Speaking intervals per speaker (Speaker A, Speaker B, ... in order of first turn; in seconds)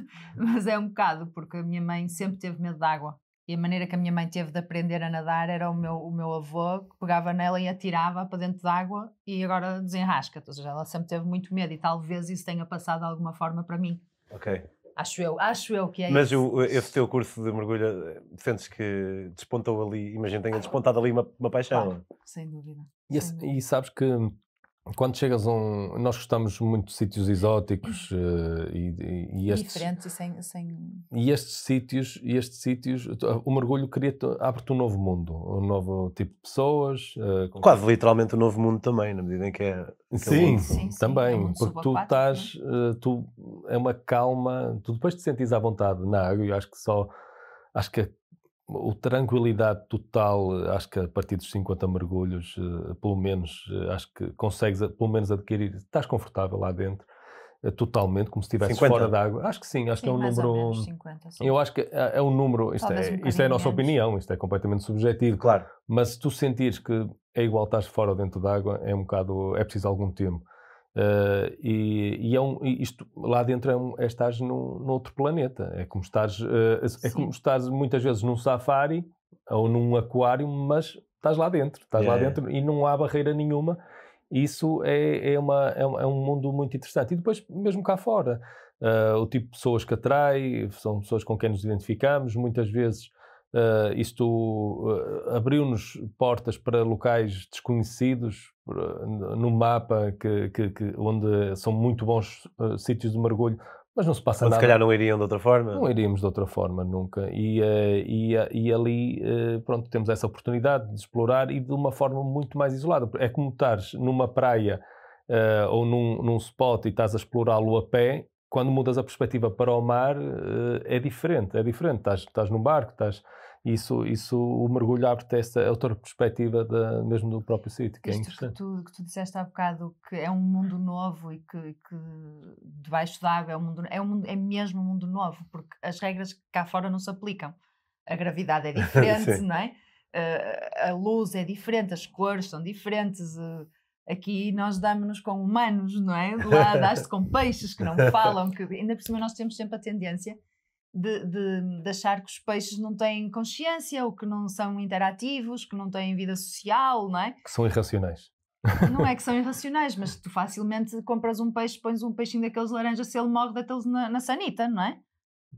Speaker A: 0.3-14.0, 14.9-16.5, 21.7-23.5, 29.5-31.1, 40.4-42.5, 60.0-61.5, 62.8-63.9, 77.0-77.3, 128.0-137.5, 138.1-150.4, 150.9-157.4, 158.8-165.0
Speaker B: 14.3-14.7, 16.1-22.0, 37.6-40.7, 58.6-59.1, 65.4-65.7, 82.0-82.4, 104.4-105.8, 138.8-139.4
Speaker C: 23.1-24.3, 24.9-29.9, 31.1-37.8, 40.1-47.1, 47.7-48.1, 48.7-57.0, 57.6-60.9, 61.4-70.4, 70.9-83.8, 84.3-104.8, 105.7-128.5, 157.4-159.0